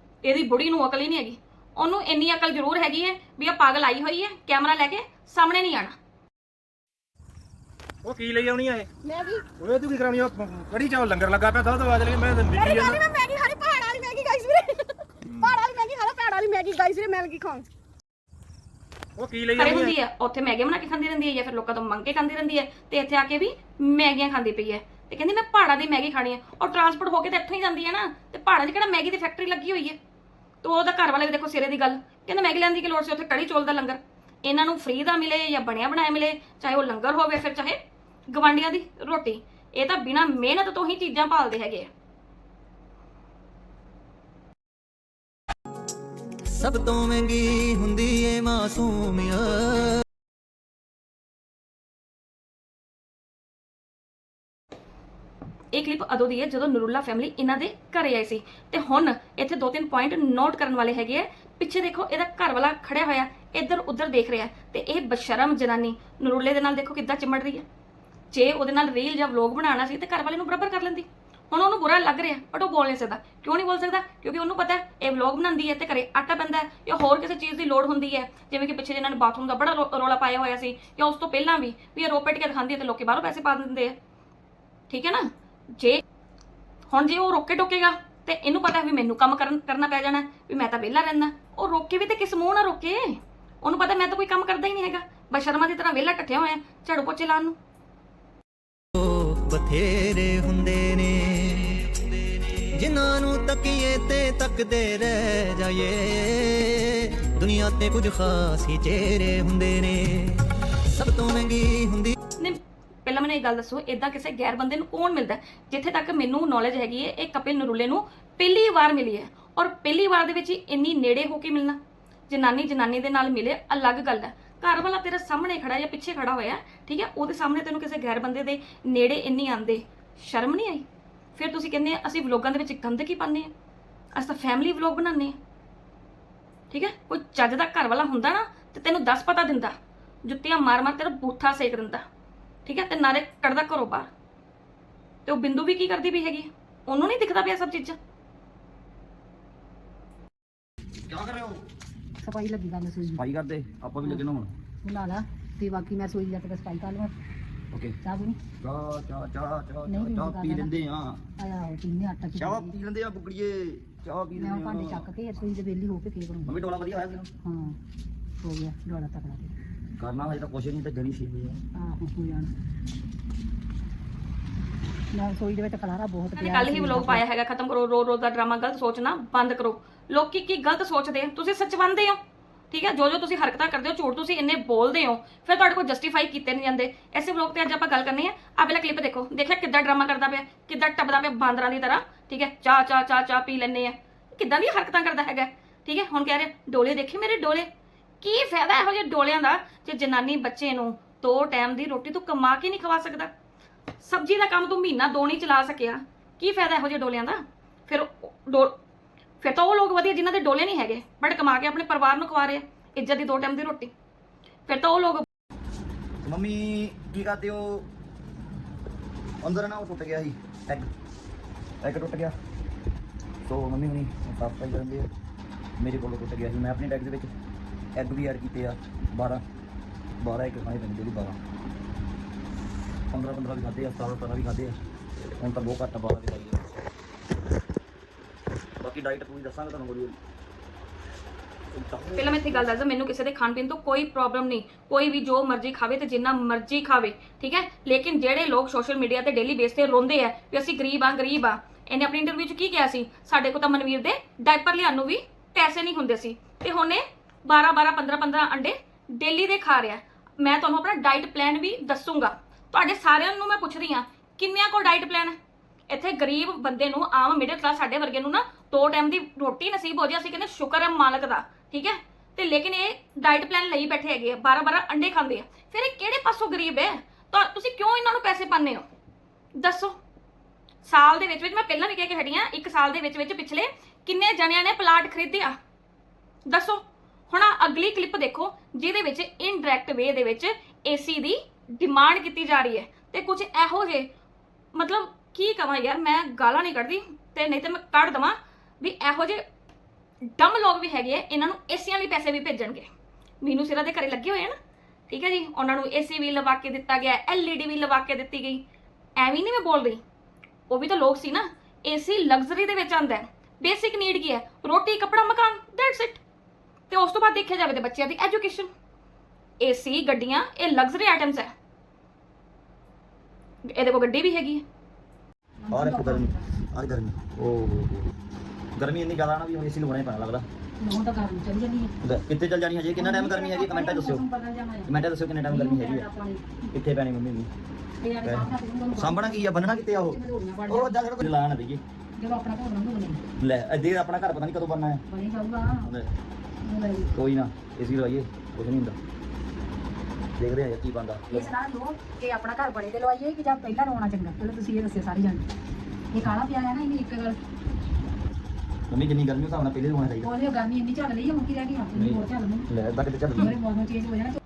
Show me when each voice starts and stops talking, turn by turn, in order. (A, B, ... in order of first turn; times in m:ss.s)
0:00.2-0:05.9 A
0:08.0-0:08.9 B
0:09.0-0:09.4 C
0:09.6-0:13.0 B
0:12.5-0:17.6 C
0:19.2-0:19.9 B
0:19.6-0:30.0 A
0:30.6-0:37.8 A
0:38.3-0:41.9 A
0:46.5-0:50.0 D
0:55.7-1:07.6 A
1:08.3-1:23.9 A
1:24.9-1:26.0 A
1:26.9-1:37.6 A
1:39.0-1:50.4 D
1:50.9-1:52.1 D
1:52.4-2:01.8 A
2:02.3-2:10.8 A
2:11.4-2:13.5 A
2:14.2-2:15.3 A
2:16.7-2:19.7 A
2:20.3-2:22.0 A
2:22.6-2:24.1 A
2:25.3-2:28.0 A
2:31.0-2:31.6 E
2:32.2-2:33.2 F
2:33.1-2:34.5 E
2:34.8-2:37.1 F
2:37.7-2:38.0 E
2:38.0-2:38.4 F
2:38.6-2:41.2 E
2:39.9-2:40.7 F
2:41.4-2:42.7 F
2:42.3-2:45.1 E
2:44.4-2:46.5 F
2:46.4-2:47.3 E
2:47.4-2:47.8 F
2:48.4-2:49.5 F
2:50.0-2:51.6 E
2:51.8-2:52.5 F
2:55.1-2:57.2 F
2:56.4-3:02.2 A
3:02.7-3:17.7 A
3:18.2-3:23.3 A
3:24.0-3:28.7 A
3:29.4-3:33.9 A
3:34.7-3:35.2 A
3:36.2-3:37.9 E
3:39.4-3:40.9 E
3:41.8-3:42.3 E
3:43.4-3:45.1 E
3:45.8-3:47.3 E
3:47.9-3:49.4 E
3:50.2-3:51.4 E
3:53.1-3:54.8 E
3:55.4-3:56.7 E
3:58.8-4:00.2 E
4:01.7-4:02.7 E
4:02.2-4:25.4 A
4:25.9-4:38.8 A
4:39.6-4:40.0 A
4:40.8-4:45.5 A
4:46.5-4:54.1 A
4:54.7-4:59.4 A
5:00.2-5:02.9 A
5:03.4-5:04.5 A
5:05.1-5:08.6 A
5:09.2-5:10.0 A
5:10.7-5:16.2 A
5:16.9-5:18.7 A
5:19.6-5:21.5 A
5:23.7-5:24.6 A
5:25.6-5:26.4 F
5:25.7-5:28.1 E
5:28.7-5:30.4 E
5:30.8-5:31.9 F
5:32.0-5:34.2 E
5:33.0-5:34.9 F
5:34.8-5:36.1 E
5:35.4-5:36.5 F
5:36.7-5:37.5 E
5:38.0-5:41.0 F
5:38.2-5:41.8 E
5:42.2-5:43.2 F
5:43.4-5:45.0 E
5:45.1-5:45.9 F
5:45.8-5:46.1 E
5:46.6-5:47.1 F
5:47.1-5:49.0 E
5:50.4-5:51.5 E
5:51.3-5:55.5 F
5:56.1-5:57.4 F
5:58.9-6:00.3 E
6:00.2-6:02.7 F
6:01.9-6:03.6 E
6:03.4-6:04.4 F